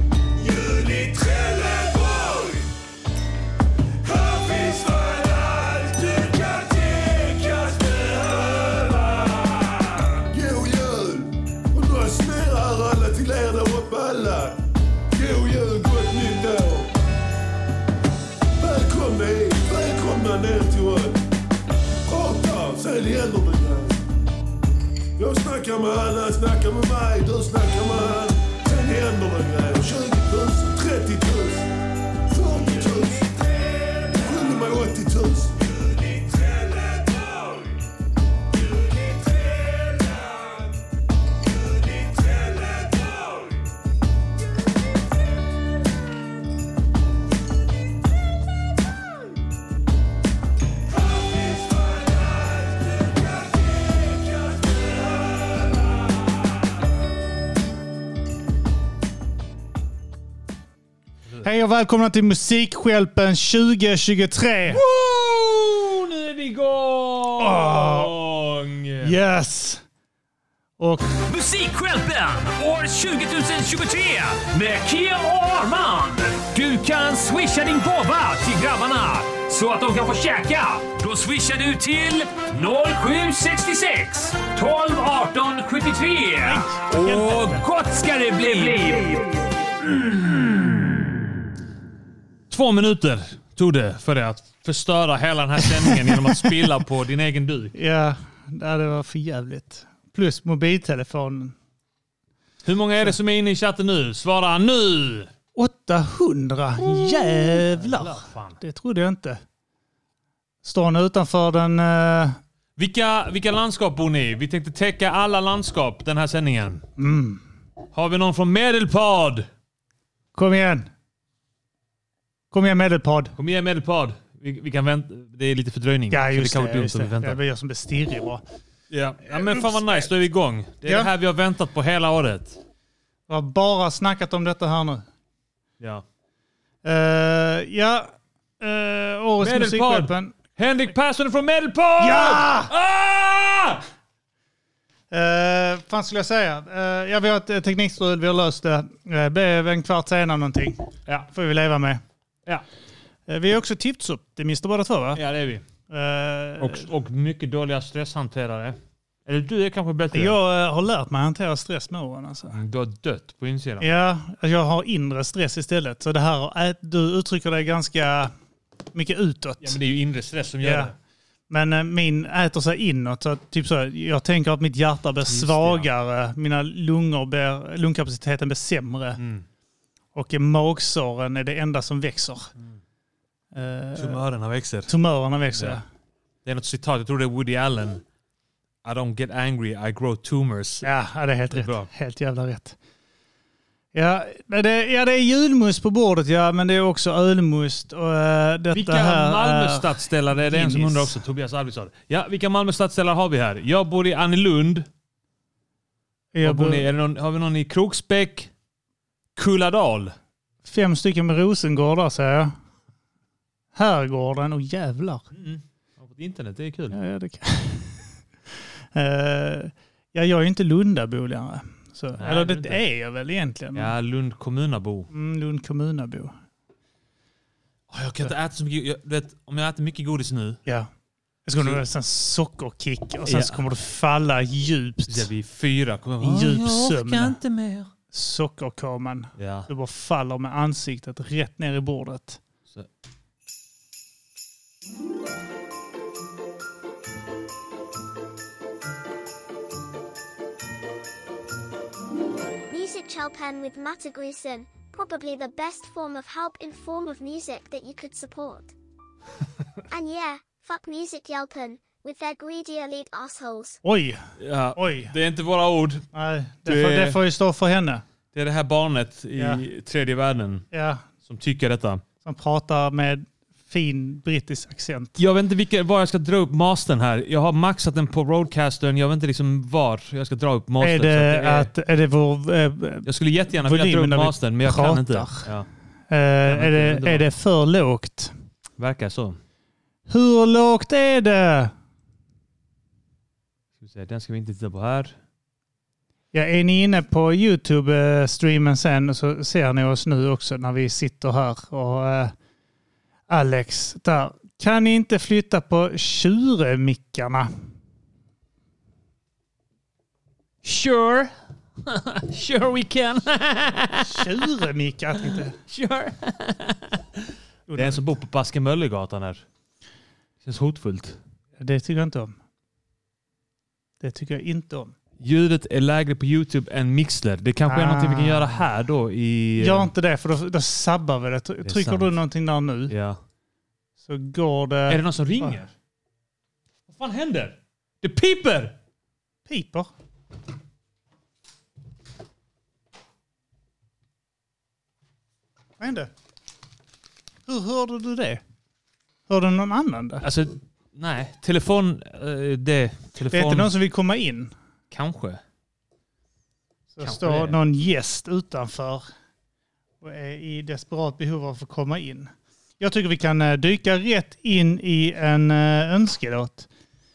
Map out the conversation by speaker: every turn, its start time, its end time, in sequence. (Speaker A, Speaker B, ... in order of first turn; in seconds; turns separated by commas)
Speaker A: 10.3-11.2, Speaker A: 11.8-14.4, Speaker A: 15.2-16.7, Speaker A: 18.7-21.0, Speaker A: 22.2-23.9, Speaker A: 25.4-27.6, Speaker A: 28.9-31.5, Speaker A: 32.5-33.1, Speaker A: 34.3-35.4, Speaker B: 61.4-64.8, Speaker C: 64.7-69.2, Speaker B: 67.4-68.1, Speaker B: 69.0-69.8, Speaker B: 70.8-71.1, Speaker D: 71.1-89.3, Speaker B: 86.4-87.7, Speaker B: 88.5-89.3, Speaker D: 90.1-90.4, Speaker C: 92.5-97.7, Speaker B: 95.8-96.5, Speaker B: 97.7-101.5, Speaker C: 102.6-105.3, Speaker B: 105.6-109.4, Speaker C: 106.8-108.6, Speaker B: 110.6-112.4, Speaker C: 112.8-116.8, Speaker B: 117.0-117.4, Speaker C: 117.9-119.5, Speaker B: 120.3-120.9, Speaker B: 122.5-123.3, Speaker C: 123.4-127.4, Speaker B: 126.1-128.4, Speaker C: 128.9-132.6, Speaker B: 129.3-130.0, Speaker B: 130.8-131.1, Speaker B: 133.3-135.1, Speaker B: 136.8-140.3, Speaker C: 139.4-143.8, Speaker B: 142.0-142.7, Speaker B: 145.1-152.0, Speaker B: 153.3-155.2, Speaker C: 155.1-155.6, Speaker B: 155.9-156.9, Speaker C: 156.6-160.4, Speaker B: 160.1-162.6, Speaker C: 162.5-163.9, Speaker B: 163.8-168.3, Speaker B: 168.9-169.8, Speaker C: 169.6-170.9, Speaker B: 170.6-170.9, Speaker B: 171.5-179.2, Speaker C: 175.3-175.9, Speaker C: 179.2-179.4, Speaker B: 180.1-182.5, Speaker B: 183.5-184.2, Speaker C: 184.0-184.9, Speaker B: 184.9-185.8, Speaker C: 185.5-185.8, Speaker C: 186.4-188.0, Speaker C: 188.8-190.9, Speaker B: 190.8-192.8, Speaker C: 191.5-191.9, Speaker B: 193.9-201.2, Speaker C: 198.7-204.9, Speaker B: 206.3-206.9, Speaker C: 206.4-208.5, Speaker C: 209.4-210.2, Speaker B: 210.6-212.6, Speaker B: 213.8-215.3, Speaker C: 215.3-217.0, Speaker B: 216.9-218.0, Speaker B: 218.9-223.9, Speaker C: 222.2-222.8, Speaker C: 223.7-225.1, Speaker B: 225.1-226.3, Speaker C: 227.9-230.6, Speaker B: 231.5-235.3, Speaker C: 233.3-233.7, Speaker C: 235.1-237.9, Speaker B: 236.2-237.4, Speaker B: 238.1-242.4, Speaker C: 239.4-239.7, Speaker E: 252.7-258.7, Speaker E: 259.9-263.8, Speaker B: 263.8-264.2, Speaker C: 264.4-266.1, Speaker B: 264.8-265.1, Speaker B: 266.1-268.0, Speaker C: 266.7-267.2, Speaker C: 268.3-270.7, Speaker B: 269.4-269.6, Speaker B: 270.7-271.1, Speaker C: 271.3-272.0, Speaker B: 272.2-275.2, Speaker C: 275.2-281.7, Speaker B: 280.8-283.1, Speaker C: 283.1-285.7, Speaker B: 283.6-285.5, Speaker B: 286.1-288.3, Speaker C: 286.5-287.3, Speaker C: 288.8-289.4, Speaker B: 290.1-291.7, Speaker C: 293.8-295.1, Speaker B: 296.3-302.3, Speaker B: 303.3-307.5, Speaker C: 310.6-311.3, Speaker C: 311.9-314.5, Speaker B: 314.0-315.6, Speaker C: 315.2-317.0, Speaker B: 317.7-318.0, Speaker C: 317.8-319.4, Speaker C: 320.4-321.2, Speaker B: 321.6-322.4, Speaker B: 324.0-324.9, Speaker C: 325.2-329.9, Speaker B: 327.7-328.6, Speaker B: 329.6-332.9, Speaker C: 331.6-332.2, Speaker C: 332.9-333.2, Speaker B: 334.0-335.6, Speaker C: 334.9-335.7, Speaker C: 336.9-338.7, Speaker B: 339.5-339.9, Speaker B: 345.8-346.1, Speaker B: 347.5-348.4, Speaker B: 349.3-350.3, Speaker C: 350.2-353.7, Speaker B: 353.3-354.5, Speaker C: 354.9-355.4, Speaker B: 356.9-359.1, Speaker C: 357.0-357.6, Speaker B: 360.0-366.7